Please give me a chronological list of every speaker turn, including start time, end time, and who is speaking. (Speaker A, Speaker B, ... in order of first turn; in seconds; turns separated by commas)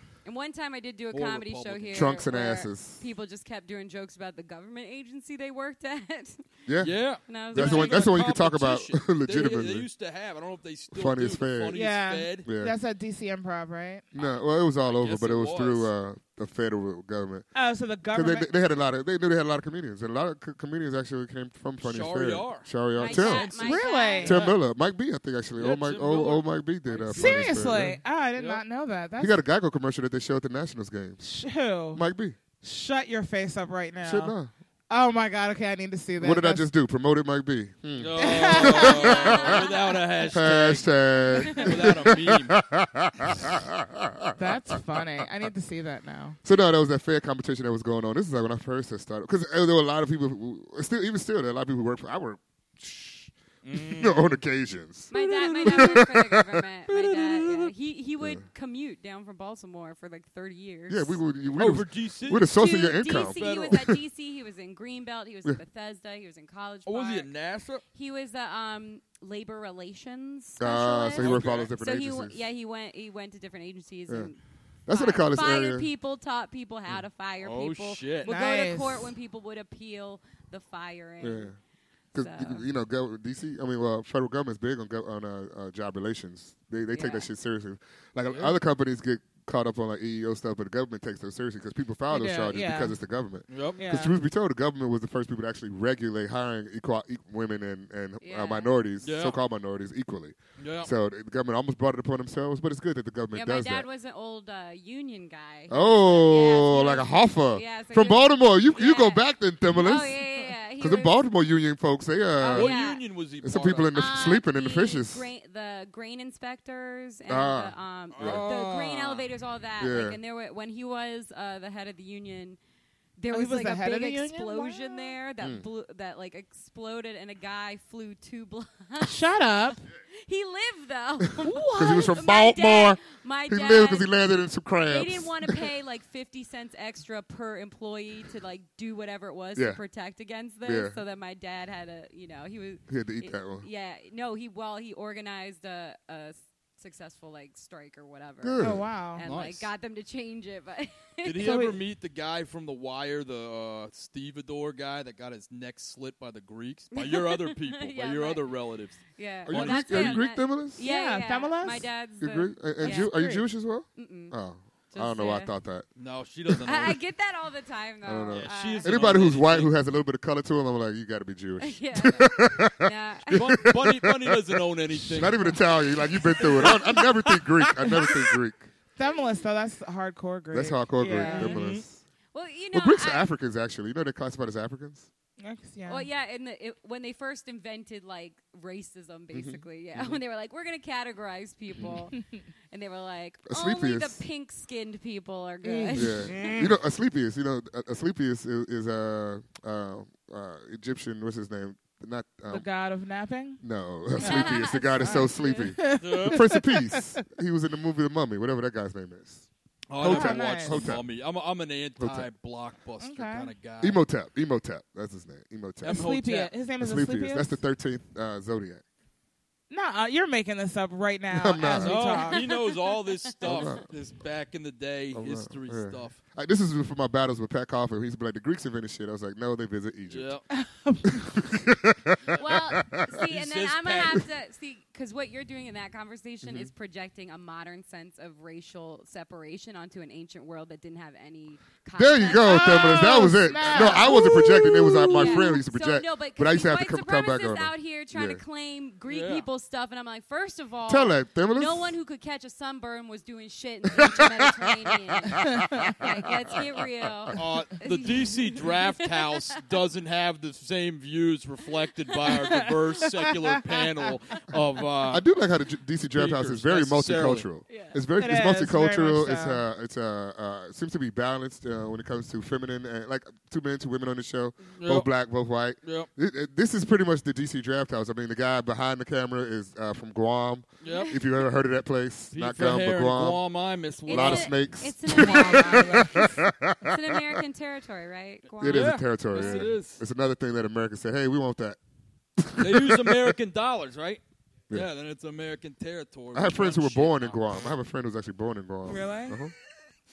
Speaker A: 0.2-6.5, Speaker B: 1.1-2.1, Speaker C: 1.9-3.0, Speaker C: 6.7-6.9, Speaker B: 6.8-12.5, Speaker A: 7.3-8.2, Speaker C: 7.5-9.9, Speaker C: 10.9-11.8, Speaker D: 11.7-14.1, Speaker C: 12.4-12.8, Speaker C: 14.1-17.5, Speaker B: 14.8-15.9, Speaker D: 17.6-18.5, Speaker C: 18.1-23.5, Speaker B: 21.8-24.6, Speaker A: 23.0-24.4, Speaker D: 23.6-24.4, Speaker C: 24.2-28.0, Speaker B: 25.6-28.6, Speaker D: 27.1-29.4, Speaker C: 29.2-31.2, Speaker D: 31.2-32.0, Speaker C: 31.9-32.4, Speaker D: 32.6-34.3, Speaker C: 34.0-34.5, Speaker D: 34.9-36.7, Speaker C: 36.2-39.6, Speaker B: 38.0-42.6, Speaker D: 38.1-39.6, Speaker A: 38.8-40.0, Speaker C: 40.3-45.0, Speaker D: 44.4-46.4, Speaker C: 46.4-56.6, Speaker B: 53.6-54.4, Speaker A: 55.1-61.2, Speaker B: 56.9-57.7, Speaker C: 60.9-63.8, Speaker B: 61.6-64.0, Speaker A: 62.5-67.3, Speaker B: 66.9-67.8, Speaker A: 67.9-74.4, Speaker C: 70.6-72.4, Speaker B: 71.1-71.7, Speaker C: 74.9-75.9, Speaker A: 74.9-81.5, Speaker B: 77.4-78.3, Speaker D: 78.3-79.1, Speaker C: 81.2-81.5, Speaker C: 82.1-103.9, Speaker A: 82.2-82.6, Speaker A: 86.9-87.3, Speaker B: 88.3-88.5, Speaker D: 92.1-93.0, Speaker B: 93.5-93.8, Speaker D: 93.8-94.2, Speaker A: 98.2-98.7, Speaker B: 99.0-99.4, Speaker B: 100.6-100.9, Speaker A: 103.3-109.2, Speaker C: 105.7-110.2, Speaker A: 109.7-111.1, Speaker C: 110.8-112.8, Speaker A: 112.4-113.0, Speaker B: 112.5-113.9, Speaker C: 113.4-115.3, Speaker A: 113.9-122.6, Speaker C: 117.3-118.5, Speaker B: 118.1-119.2, Speaker C: 119.8-120.2, Speaker A: 123.2-134.1, Speaker D: 123.3-125.2, Speaker D: 129.0-129.8, Speaker C: 131.4-135.7, Speaker D: 131.4-131.7, Speaker A: 134.9-151.7, Speaker C: 140.7-141.0, Speaker C: 142.9-143.7, Speaker C: 148.4-148.9, Speaker D: 148.6-149.2, Speaker B: 149.2-149.7, Speaker B: 151.2-160.3, Speaker D: 151.4-151.8, Speaker A: 156.9-158.5, Speaker A: 159.1-164.3, Speaker C: 159.5-160.8, Speaker D: 160.8-161.9, Speaker C: 162.2-165.9, Speaker D: 162.8-163.2, Speaker A: 164.9-165.5, Speaker B: 166.0-167.0, Speaker C: 166.5-166.9, Speaker A: 166.6-169.4, Speaker C: 168.1-178.7, Speaker B: 168.3-169.7, Speaker A: 171.6-173.6, Speaker B: 173.3-178.3, Speaker D: 179.0-181.6, Speaker C: 180.5-182.0, Speaker B: 181.2-181.8, Speaker A: 182.3-183.3, Speaker C: 182.7-185.1, Speaker D: 185.4-186.1, Speaker A: 185.9-196.6, Speaker C: 189.3-190.2, Speaker C: 191.7-192.0, Speaker C: 193.5-194.2, Speaker D: 195.6-196.7, Speaker C: 195.9-202.7, Speaker B: 196.3-196.7, Speaker D: 202.5-203.6, Speaker C: 203.6-209.5, Speaker A: 204.2-205.7, Speaker D: 204.2-207.2, Speaker B: 206.0-206.4, Speaker B: 209.9-214.0, Speaker C: 210.0-211.1, Speaker D: 210.1-211.0, Speaker C: 212.0-212.3, Speaker D: 213.0-213.5, Speaker C: 213.8-216.1, Speaker B: 215.8-216.5, Speaker D: 215.9-217.6, Speaker C: 216.8-218.8, Speaker D: 219.7-222.4, Speaker C: 221.3-222.3, Speaker B: 221.8-226.2, Speaker A: 222.3-223.6, Speaker C: 223.4-223.9, Speaker C: 225.1-230.3, Speaker B: 230.1-230.4, Speaker D: 230.5-231.4, Speaker C: 231.1-233.1, Speaker A: 232.3-244.3, Speaker B: 233.1-234.2, Speaker C: 236.4-236.7, Speaker C: 242.0-248.4, Speaker D: 242.3-245.6, Speaker A: 245.0-259.6, Speaker B: 249.1-249.5, Speaker C: 250.9-251.9, Speaker C: 254.0-257.4, Speaker B: 257.4-265.2, Speaker A: 262.1-262.4, Speaker D: 262.3-263.5, Speaker C: 265.1-283.4, Speaker B: 266.1-267.5, Speaker A: 267.7-268.0, Speaker D: 268.2-269.6, Speaker B: 274.8-275.1, Speaker B: 275.8-276.1, Speaker A: 280.8-281.2, Speaker B: 280.8-281.2, Speaker B: 282.3-284.5, Speaker A: 284.1-289.7, Speaker C: 284.1-287.4, Speaker D: 285.2-286.3, Speaker B: 288.6-290.0, Speaker C: 288.6-291.8, Speaker C: 292.4-293.4, Speaker B: 292.6-297.7, Speaker C: 296.3-299.5, Speaker D: 298.9-299.4